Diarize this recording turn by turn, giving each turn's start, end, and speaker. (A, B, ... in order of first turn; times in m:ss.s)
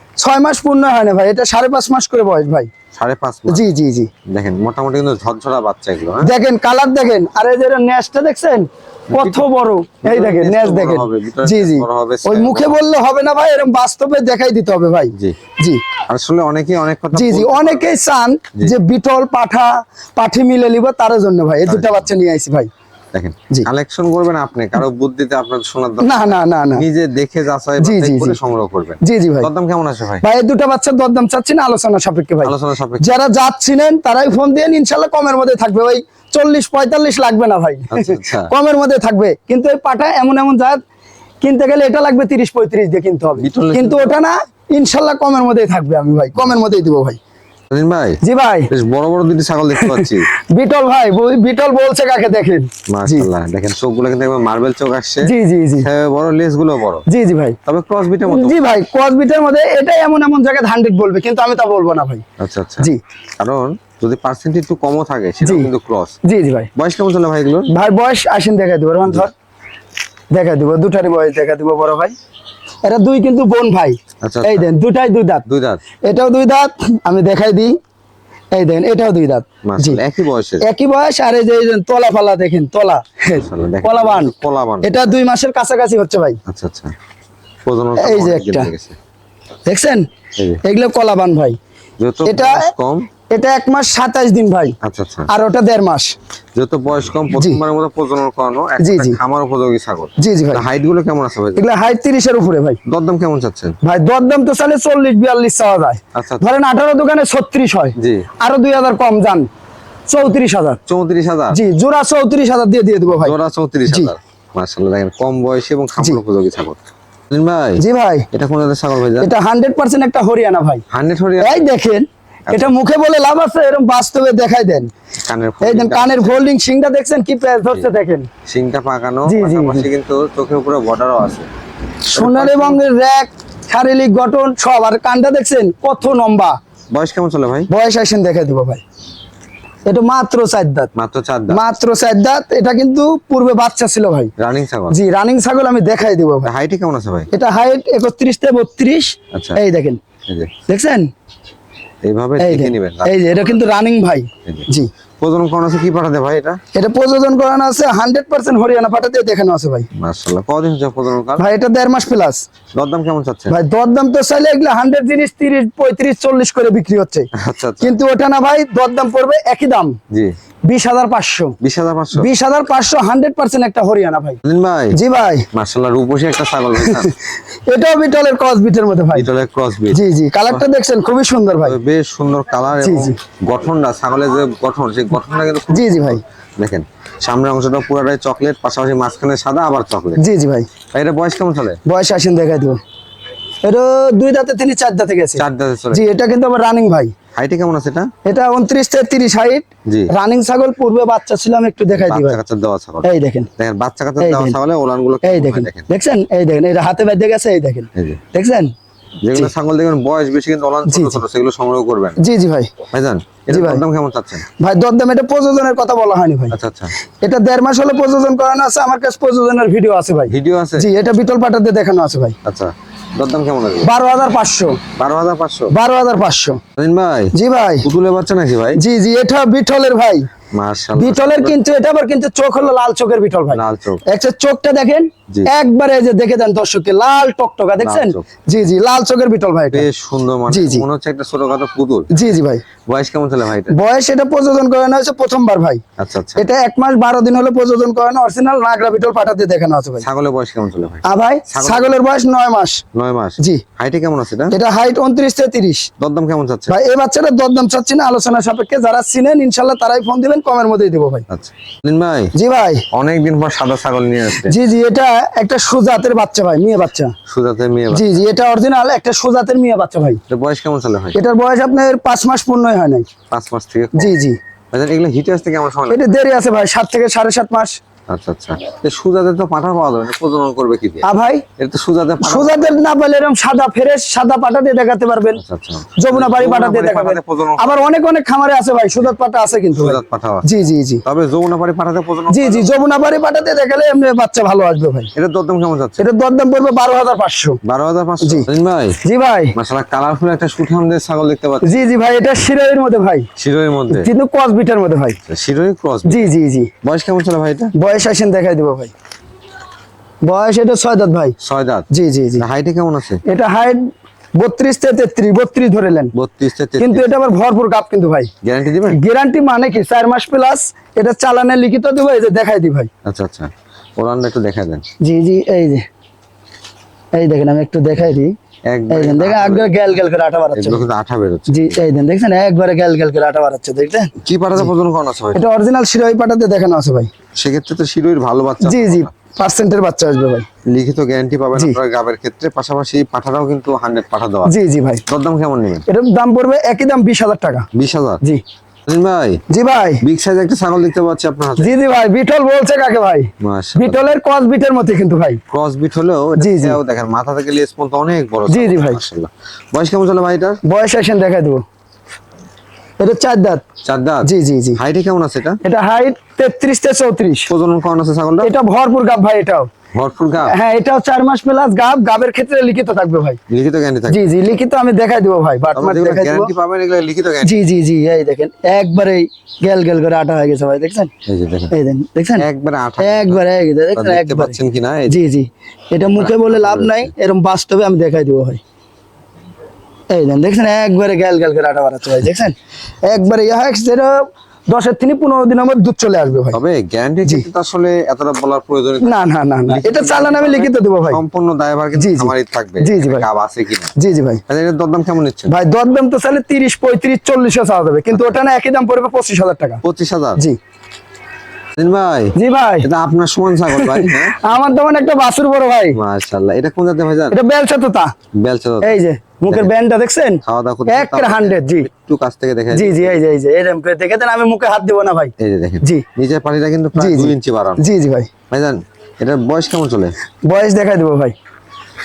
0:00.2-0:02.7 A
0:02.9-0:03.6 B
0:03.5-0:04.1 A
0:04.3-0:06.3 B
0:06.2-0:15.8 A
0:09.1-0:09.5 B
0:10.0-0:12.8 B
0:16.1-0:18.0 B
0:17.1-0:22.7 A
0:21.6-0:22.1 B
0:23.1-0:30.2 B
0:26.0-0:26.8 A
0:27.8-0:28.4 A
0:29.0-0:29.5 A
0:30.2-0:40.8 A
0:32.4-0:33.2 B
0:37.9-0:38.5 B
0:41.4-0:47.2 A
0:43.4-0:44.2 B
0:47.7-0:48.2 B
0:48.2-0:48.7 A
0:48.7-0:50.3 B
0:49.8-0:53.3 A
0:52.9-0:57.0 B
0:55.2-0:55.9 A
0:57.1-0:57.6 A
0:57.6-0:58.7 B
0:58.2-1:02.2 A
1:02.4-1:06.2 B
1:05.4-1:05.7 A
1:06.2-1:06.7 A
1:06.8-1:07.7 B
1:07.7-1:09.3 A
1:10.3-1:12.1 A
1:12.8-1:15.4 A
1:14.2-1:14.7 B
1:15.4-1:15.8 B
1:16.1-1:17.8 A
1:18.5-1:20.0 A
1:19.6-1:20.6 B
1:20.6-1:26.4 A
1:23.3-1:25.1 B
1:26.4-1:26.9 B
1:27.6-1:28.9 B
1:28.0-1:28.7 A
1:29.7-1:30.0 A
1:30.6-1:31.6 A
1:32.0-1:33.1 B
1:32.2-1:32.7 A
1:33.3-1:34.7 A
1:34.8-1:35.3 B
1:35.3-1:36.1 A
1:36.5-1:41.6 B
1:37.3-1:37.6 A
1:38.8-1:39.2 A
1:40.2-1:40.6 A
1:41.6-1:42.8 A
1:42.9-1:43.8 B
1:43.8-1:49.5 A
1:46.1-1:46.5 B
1:48.0-1:48.2 B
1:50.1-1:50.8 A
1:50.9-1:51.6 B
1:51.5-1:53.4 A
1:53.1-1:56.8 B
1:57.3-1:59.3 B
1:57.8-1:58.3 A
1:59.2-2:00.8 A
2:00.9-2:01.7 B
2:01.4-2:04.9 A
2:02.5-2:02.7 B
2:05.2-2:06.4 B
2:05.6-2:08.3 A
2:08.5-2:11.5 B
2:09.3-2:09.9 A
2:12.1-2:16.6 A
2:12.1-2:12.8 B
2:16.9-2:17.7 B
2:17.7-2:18.8 A
2:19.8-2:20.9 A
2:20.9-2:21.6 B
2:21.5-2:24.3 A
2:24.4-2:25.0 B
2:24.9-2:26.5 A
2:26.4-2:27.3 B
2:27.3-2:30.0 A
2:29.3-2:29.6 B
2:30.7-2:31.1 A
2:32.0-2:33.6 B
2:32.4-2:34.9 A
2:35.2-2:36.6 B
2:36.7-2:39.9 A
2:40.0-2:41.4 B
2:41.4-2:42.4 A
2:42.7-2:43.5 B
2:43.5-2:47.3 A
2:47.4-2:47.9 B
2:47.8-2:50.0 A
2:50.7-2:51.5 A
2:51.6-2:52.3 B
2:52.2-2:54.4 A
2:54.4-2:55.0 B
2:54.9-2:55.5 A
2:55.5-2:57.1 B
2:56.8-2:57.1 A
2:57.7-2:59.3 A
2:59.1-3:00.6 B
2:59.9-3:01.8 A
3:01.6-3:10.2 B
3:02.8-3:03.2 A
3:05.7-3:06.2 A
3:10.2-3:10.7 A
3:10.9-3:11.8 B
3:11.8-3:12.8 A
3:13.6-3:17.1 A
3:15.4-3:16.0 B
3:17.3-3:18.1 B
3:18.2-3:22.4 A
3:21.9-3:25.9 B
3:23.0-3:23.5 A
3:24.2-3:24.6 A
3:25.2-3:28.7 A
3:27.9-3:28.2 B
3:29.2-3:32.2 B
3:30.9-3:31.2 A
3:32.2-3:32.7 A
3:32.9-3:34.4 B
3:33.5-3:33.8 A
3:34.6-3:36.5 A
3:36.5-3:36.9 B
3:37.2-3:42.4 A
3:40.3-3:40.9 B
3:42.4-3:43.9 B
3:43.8-3:44.8 A
3:45.0-3:45.7 B
3:45.7-3:46.6 A
3:46.8-3:48.8 B
3:47.3-3:47.9 A
3:48.7-3:50.3 A
3:50.5-3:51.6 B
3:51.0-3:59.9 A
3:53.5-3:54.0 B
3:57.8-3:58.2 B
3:59.7-4:02.4 B
4:00.5-4:00.8 A
4:02.1-4:02.6 A
4:02.9-4:03.7 B
4:03.7-4:05.8 A
4:06.0-4:06.5 B
4:06.4-4:10.0 A
4:10.0-4:12.0 B
4:11.0-4:12.8 A
4:12.9-4:14.6 B
4:14.5-4:15.9 A
4:16.0-4:16.7 B
4:16.7-4:21.2 A
4:21.3-4:22.3 B
4:22.3-4:22.8 A
4:22.9-4:24.5 B
4:24.4-4:27.1 A
4:27.3-4:28.2 B
4:27.9-4:30.2 A
4:30.3-4:31.2 B
4:31.1-4:33.1 A
4:33.3-4:34.1 B
4:33.9-4:34.4 A
4:34.7-4:36.0 B
4:35.9-4:37.8 A
4:38.1-4:41.0 B
4:41.0-4:41.4 A
4:41.6-4:42.9 B
4:42.2-4:45.4 A
4:45.4-4:47.8 B
4:46.0-4:51.0 A
4:49.7-4:50.5 B
4:51.0-4:52.7 B
4:52.3-4:55.1 A
4:55.1-4:56.0 B
4:56.0-4:57.6 A
4:57.6-4:59.0 B
4:58.2-4:58.5 A
4:59.0-4:59.5 A
4:59.5-5:01.8 B
5:01.6-5:03.3 A
5:03.4-5:04.1 B
5:03.9-5:05.2 A
5:05.3-5:06.3 B
5:06.0-5:06.7 A
5:06.8-5:07.7 B
5:07.7-5:08.9 A
5:10.2-5:11.4 A
5:11.4-5:13.2 B
5:11.9-5:12.4 A
5:13.3-5:13.8 A
5:14.4-5:16.1 A
5:16.1-5:17.1 B
5:16.8-5:18.3 A
5:18.4-5:19.0 B
5:18.9-5:22.9 A
5:23.0-5:24.8 B
5:25.0-5:25.8 A
5:27.1-5:28.3 A
5:28.7-5:30.0 B
5:28.9-5:30.8 A
5:30.5-5:31.8 B
5:31.5-5:34.7 A
5:34.2-5:35.4 B
5:35.3-5:37.1 A
5:37.4-5:39.1 B
5:38.6-5:40.4 A
5:40.7-5:44.5 B
5:44.4-5:45.0 A
5:45.1-5:45.8 B
5:45.9-5:47.6 A
5:47.7-5:48.2 B
5:48.9-5:49.4 B
5:49.5-5:50.0 A
5:50.0-5:51.7 B
5:51.6-5:55.4 A
5:53.4-5:54.1 B
5:55.5-6:00.6 B
5:56.4-5:56.8 A
5:58.5-5:59.0 A
6:00.6-6:01.6 A
6:03.0-6:03.6 A
6:03.8-6:05.6 B
6:04.2-6:04.8 A
6:05.6-6:07.5 A
6:07.5-6:08.5 B
6:08.4-6:09.7 A
6:09.9-6:10.5 B
6:10.4-6:13.4 A
6:13.5-6:14.3 B
6:14.1-6:16.5 A
6:15.7-6:17.6 B
6:17.4-6:21.1 A
6:21.2-6:21.7 B
6:21.7-6:22.4 A
6:22.4-6:23.4 B
6:23.0-6:28.6 A
6:23.9-6:25.2 B
6:26.0-6:27.1 B
6:30.1-6:36.6 A
6:36.5-6:39.1 B
6:39.0-6:41.2 A
6:39.7-6:43.9 B
6:42.0-6:43.2 A
6:44.0-6:44.4 A
6:44.5-6:45.5 B
6:45.5-6:49.8 A
6:48.1-6:48.4 B
6:49.8-6:50.4 B
6:51.8-6:54.4 B
6:52.3-6:52.9 A
6:53.7-6:56.0 A
6:55.9-6:57.4 B
6:57.3-6:58.1 A
6:58.4-6:59.7 B
6:58.8-7:01.9 A
7:00.4-7:03.2 B
7:02.7-7:06.0 A
7:05.4-7:07.8 B
7:07.0-7:08.3 A
7:08.5-7:10.1 B
7:10.5-7:11.3 A